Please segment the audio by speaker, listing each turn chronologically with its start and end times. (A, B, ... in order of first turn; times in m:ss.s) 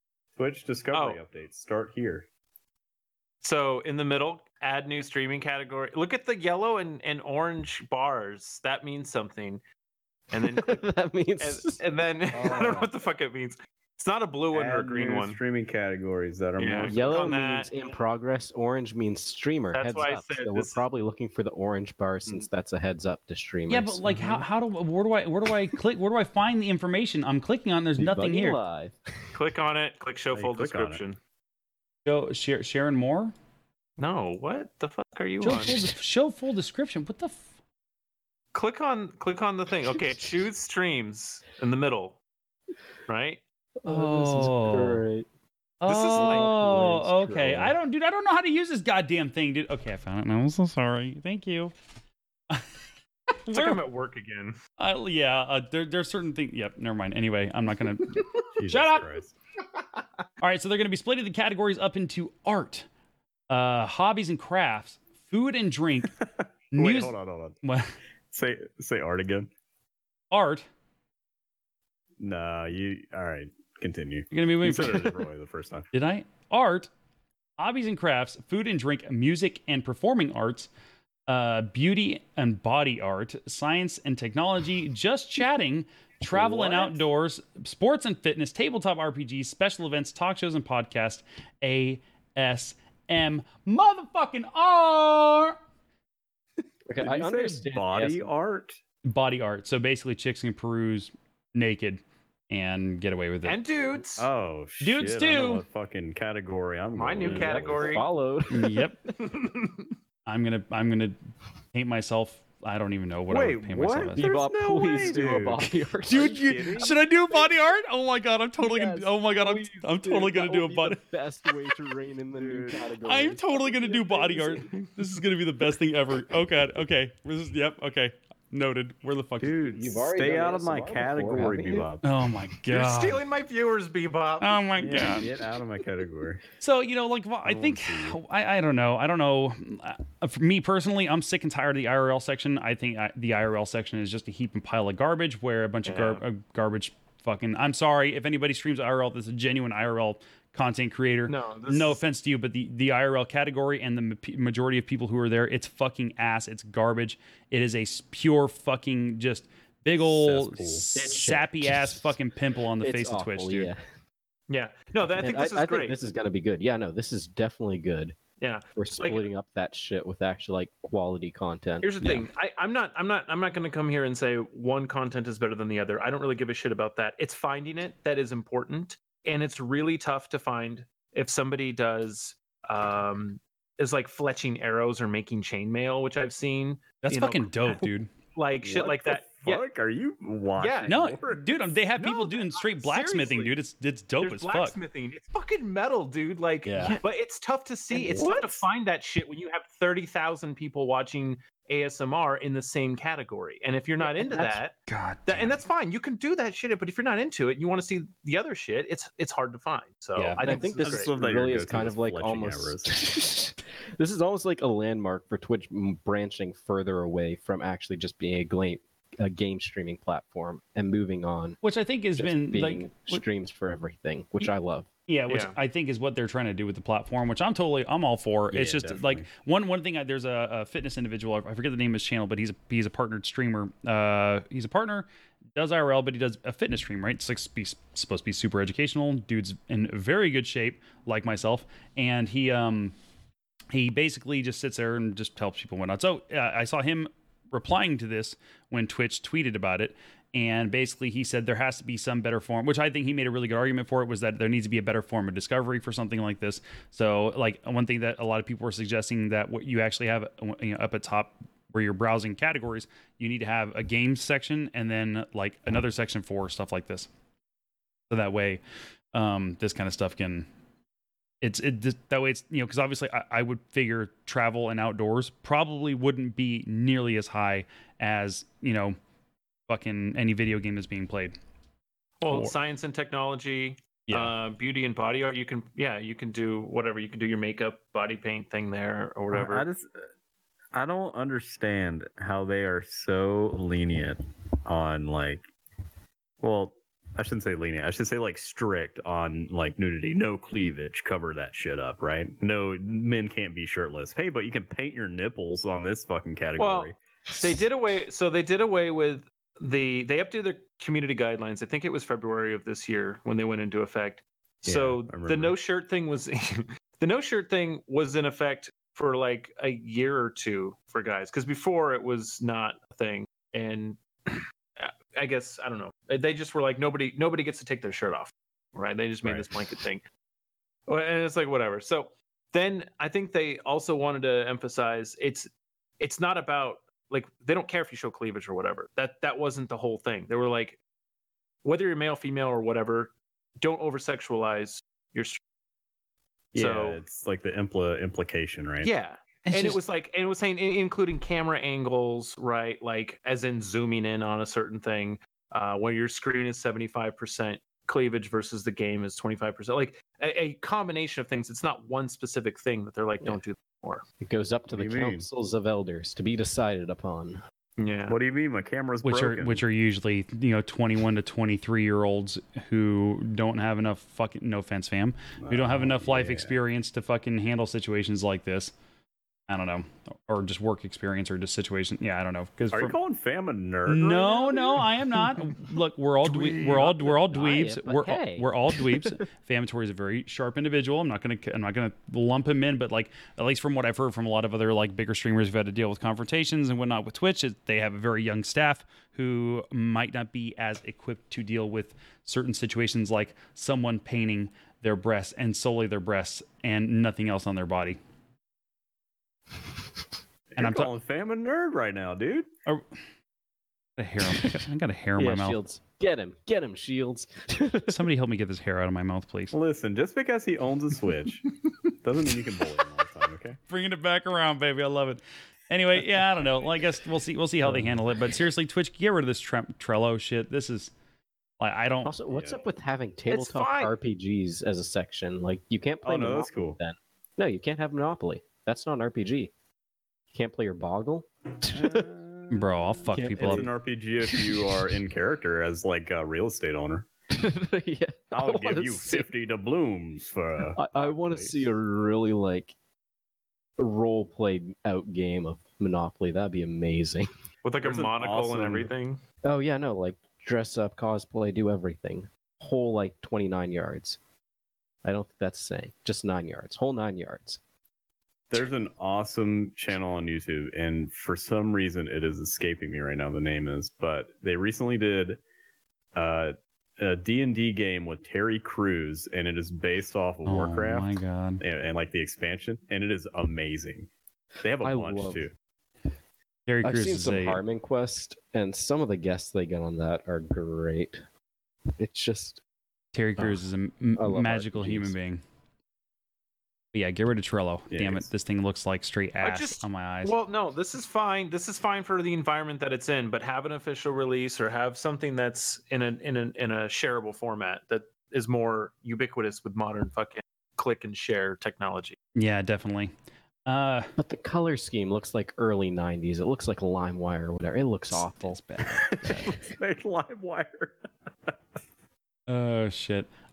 0:00.4-0:02.3 A
0:00.9-0:01.2 B
0:03.4-0:09.6 B
0:10.3-0:10.8 B
0:10.4-0:11.8 C
0:11.4-0:15.4 B
0:12.3-0:12.9 C
0:14.5-0:17.3 A
0:16.6-0:17.7 B
0:16.9-0:24.4 C
0:19.7-0:20.8 B
0:23.7-0:28.6 D
0:28.0-0:29.4 C
0:29.3-0:31.2 B
0:30.3-0:31.0 A
0:32.1-0:33.3 D
0:34.0-0:35.9 B
0:35.4-0:37.4 D
0:38.5-0:42.2 B
0:43.1-0:43.4 B
0:43.8-0:45.3 C
0:43.9-0:45.0 D
0:45.8-0:51.7 D
0:45.9-0:46.6 B
0:46.1-0:47.8 C
0:53.5-0:53.8 D
0:53.5-0:54.6 B
0:54.8-0:59.1 D
0:58.6-0:59.4 A
1:00.4-1:02.9 D
1:03.5-1:06.2 D
1:06.2-1:07.6 A
1:06.7-1:07.9 D
1:08.3-1:09.5 A
1:10.3-1:10.7 D
1:12.2-1:15.9 A
1:14.3-1:15.2 D
1:15.9-1:16.9 D
1:17.6-1:20.7 D
1:21.3-1:35.6 D
1:26.3-1:27.0 C
1:36.9-1:38.3 C
1:37.0-1:38.8 A
1:39.1-1:43.6 D
1:43.4-1:44.3 B
1:44.2-1:48.0 A
1:44.8-1:45.6 D
1:47.0-1:48.1 B
1:47.2-1:49.3 C
1:48.5-1:49.0 D
1:50.3-1:51.2 D
1:51.7-1:54.3 D
1:53.3-1:56.9 A
1:54.2-1:57.6 C
1:56.1-2:01.0 D
1:58.6-2:04.7 C
2:02.3-2:02.9 A
2:03.0-2:09.6 D
2:09.4-2:12.0 A
2:09.7-2:11.9 C
2:12.0-2:13.2 D
2:12.7-2:14.6 B
2:14.4-2:15.3 D
2:14.8-2:16.4 A
2:16.6-2:43.7 D
2:17.4-2:18.2 A
2:25.9-2:26.2 B
2:31.3-2:32.0 B
2:40.0-2:40.9 A
2:41.0-2:42.2 C
2:42.8-2:43.8 C
2:44.5-2:46.0 B
2:45.1-2:48.2 C
2:48.4-2:49.3 B
2:48.8-2:51.9 C
2:51.8-3:09.6 B
2:52.0-2:52.3 D
3:07.0-3:08.1 D
3:08.6-3:11.6 A
3:10.6-3:11.0 B
3:10.9-3:14.8 D
3:12.0-3:13.6 B
3:14.2-3:24.8 B
3:16.7-3:17.0 D
3:17.9-3:18.3 C
3:24.0-3:24.6 C
3:24.9-3:25.6 D
3:25.3-3:31.1 B
3:30.2-3:30.5 D
3:30.4-3:41.6 C
3:30.8-3:33.1 A
3:41.6-3:43.2 D
3:42.2-3:44.9 C
3:45.1-4:03.0 D
3:45.3-3:45.5 B
3:48.5-3:49.3 A
4:03.7-4:27.1 D
4:28.1-4:28.6 D
4:29.1-4:30.5 D
4:31.4-4:39.0 D
4:39.7-4:41.4 D
4:42.2-4:49.7 B
4:49.3-4:50.1 A
4:50.7-4:55.4 A
4:56.4-5:07.0 A
5:06.6-5:30.0 B
5:14.7-5:15.6 A
5:29.2-5:29.5 A
5:30.9-5:40.8 B
5:41.6-5:45.4 B
5:46.5-5:48.9 A
5:46.6-5:47.0 B
5:48.8-6:04.0 B
5:49.5-5:49.8 D
6:04.2-6:07.4 C
6:04.7-6:05.3 A
6:07.8-6:08.2 B
6:08.1-6:09.6 A
6:09.0-6:18.7 D
6:15.4-6:16.6 A
6:19.5-6:23.0 D
6:22.7-6:24.9 A
6:23.9-6:48.0 D
6:26.9-6:29.2 C
6:50.5-6:52.5 A
6:50.6-6:50.9 D
6:54.0-6:55.6 D
6:55.2-6:58.1 C
6:57.9-6:59.5 D
6:59.5-7:01.5 A
7:02.0-7:03.6 A
7:03.7-7:10.9 D
7:11.6-7:12.1 D
7:12.0-7:19.5 C
7:12.3-7:12.6 A
7:13.3-7:13.9 B
7:16.0-7:16.8 A
7:20.3-7:22.1 C
7:21.7-7:27.1 A
7:22.5-7:23.7 D
7:23.1-7:23.7 C
7:24.2-7:24.7 C
7:27.3-7:29.3 C
7:28.3-7:31.7 A
7:30.8-7:32.7 C
7:33.8-7:37.3 C
7:37.6-7:39.2 B
7:37.8-7:38.9 A
7:39.4-7:44.2 C
7:45.0-7:47.6 C
7:48.5-7:55.4 A
7:56.2-8:04.1 A
8:00.5-8:01.6 D
8:04.6-8:05.5 A
8:04.8-8:05.5 C
8:06.7-8:07.6 D
8:06.8-8:11.2 C
8:12.0-8:12.6 C
8:13.1-8:15.4 D
8:14.2-8:15.2 C
8:16.9-8:20.3 D
8:17.9-8:18.3 A
8:19.4-8:32.2 B
8:32.4-8:33.1 D
8:33.7-8:34.1 D
8:34.2-8:39.6 C
8:38.1-8:39.6 D
8:39.0-8:41.6 A
8:42.5-8:43.3 D